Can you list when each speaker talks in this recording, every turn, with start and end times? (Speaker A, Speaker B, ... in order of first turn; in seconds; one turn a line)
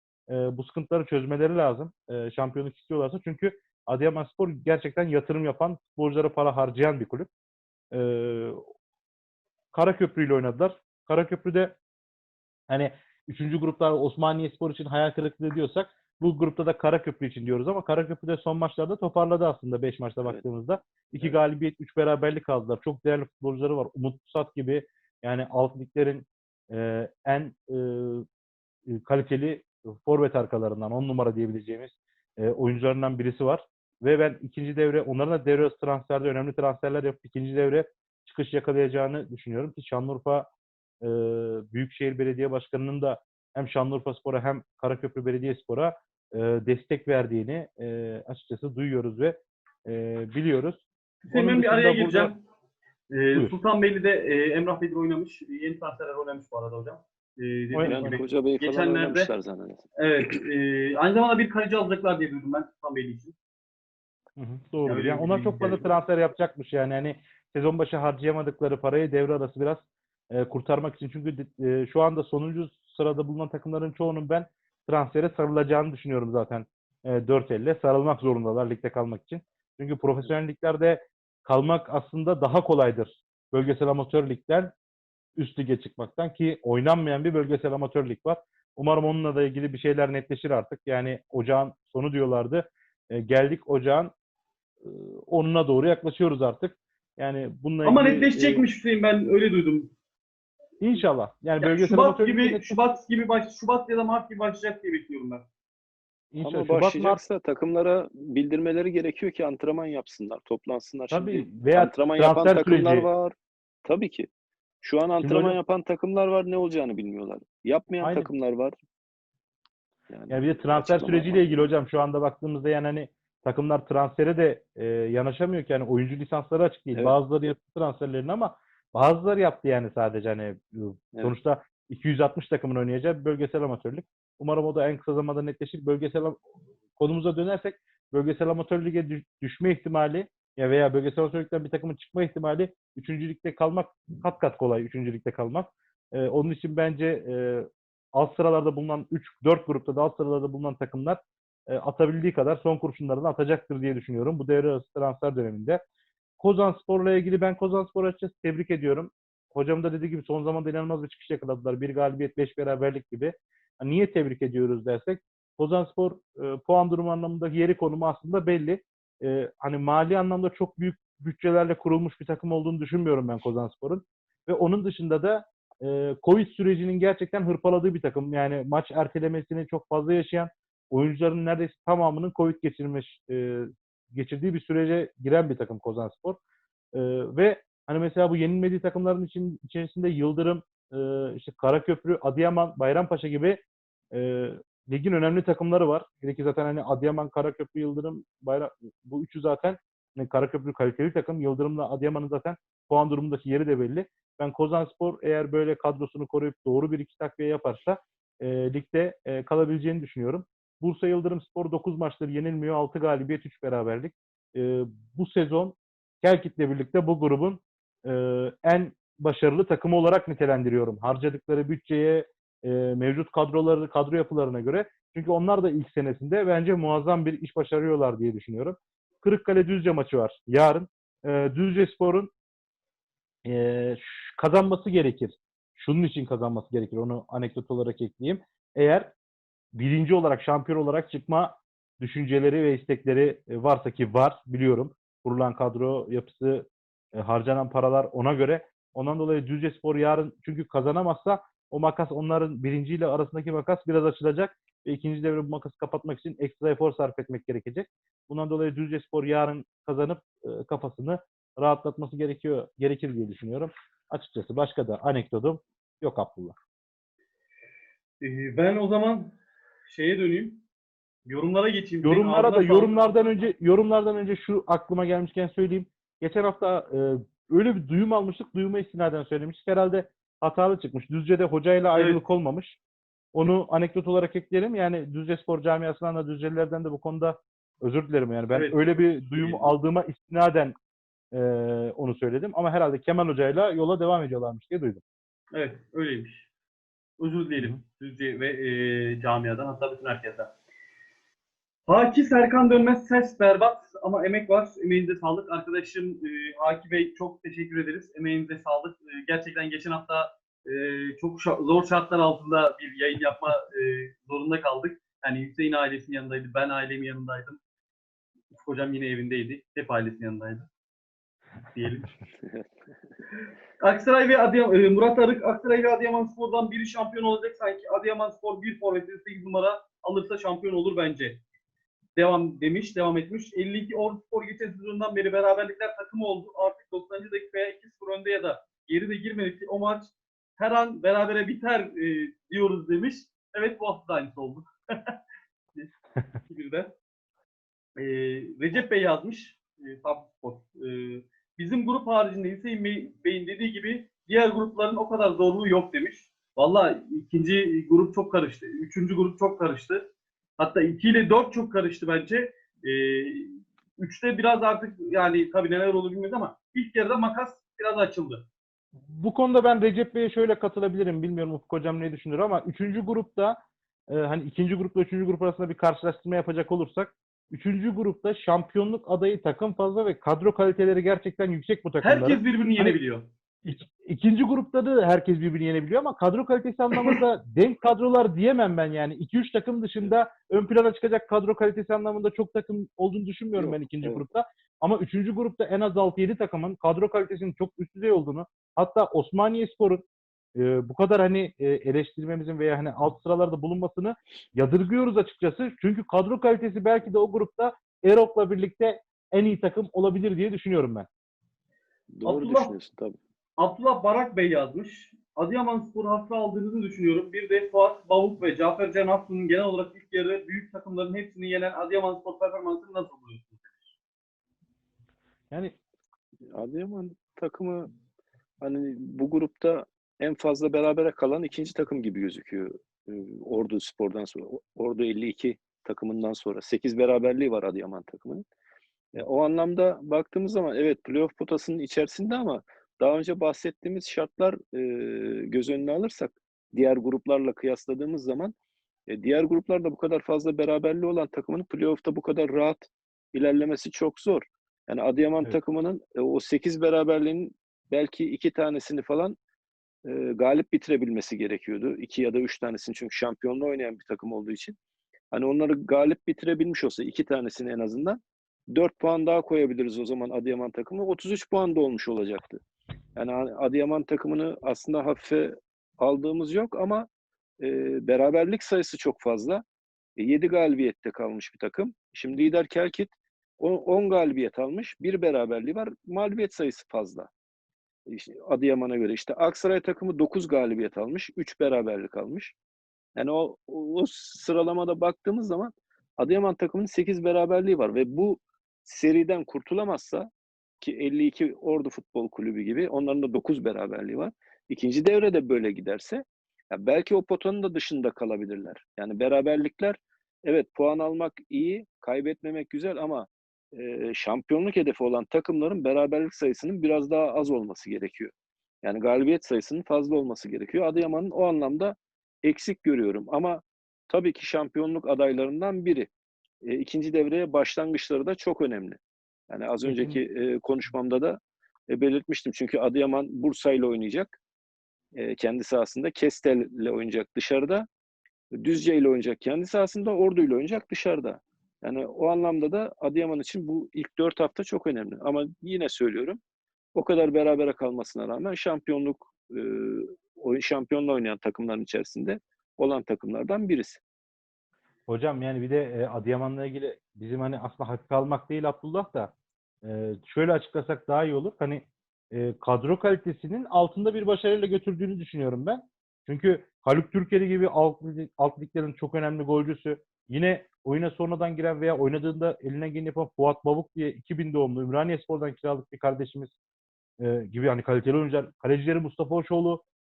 Speaker A: 0.3-7.3
Speaker A: 7.9-8.7
Speaker A: 9.7-11.8
Speaker A: 12.7-28.3
Speaker A: 28.9-40.5
Speaker A: 41.0-52.3
Speaker B: 51.2-52.4
Speaker B: 53.1-59.3
Speaker A: 57.7-58.2
Speaker C: 57.8-59.9
Speaker B: 60.0-63.4
Speaker A: 64.4-84.7
Speaker B: 64.9-65.9
Speaker A: 85.4-94.1
Speaker A: 94.8-98.6
Speaker B: 97.8-99.9
Speaker A: 100.8-103.0
Speaker B: 101.6-105.5
Speaker A: 106.3-107.2
Speaker C: 106.4-114.3
Speaker A: 111.1-113.1
Speaker C: 114.8-118.8
Speaker A: 115.2-115.6
Speaker A: 118.0-118.3
Speaker C: 120.1-121.5
Speaker A: 120.3-136.4
Speaker A: 137.0-155.8
Speaker A: 156.4-186.4
Speaker A: 186.9-193.6
Speaker A: 194.1-232.3
Speaker A: 233.4-239.1
Speaker A: 239.7-266.6
Speaker B: 268.2-269.3
Speaker B: 269.9-270.6
Speaker B: 271.3-273.3
Speaker A: 272.0-282.8
Speaker B: 281.9-282.2
Speaker A: 283.3-290.8
Speaker B: 288.5-288.8
Speaker B: 289.4-289.7
Speaker A: 291.3-295.0
Speaker B: 295.5-296.4
Speaker B: 297.2-300.5
Speaker B: 301.9-317.6
Speaker B: 318.5-320.7
Speaker B: 321.8-322.1
Speaker B: 323.8-331.4
Speaker B: 332.2-345.1
Speaker B: 346.5-346.9
Speaker B: 348.0-360.1
Speaker B: 360.6-368.4
Speaker A: 369.1-373.6
Speaker A: 374.1-383.0
Speaker B: 382.0-383.3
Speaker A: 383.6-400.0
Speaker C: 393.6-394.2
Speaker A: 400.6-411.1
Speaker C: 412.1-413.2
Speaker B: 412.2-412.7
Speaker B: 413.6-423.9
Speaker A: 425.5-425.8
Speaker C: 426.5-427.9
Speaker C: 428.6-438.4
Speaker C: 439.1-448.5
Speaker C: 449.1-459.4
Speaker C: 460.0-464.8
Speaker C: 465.3-472.6
Speaker C: 473.2-477.1
Speaker C: 477.6-479.6
Speaker C: 480.2-487.3
Speaker C: 488.1-492.6
Speaker C: 493.2-500.3
Speaker C: 500.8-518.3
Speaker C: 518.8-526.1
Speaker C: 526.6-534.4
Speaker A: 529.9-530.2
Speaker C: 535.1-537.9
Speaker C: 538.5-546.4
Speaker C: 547.0-554.0
Speaker A: 555.1-559.3
Speaker A: 559.8-576.5
Speaker A: 577.2-579.8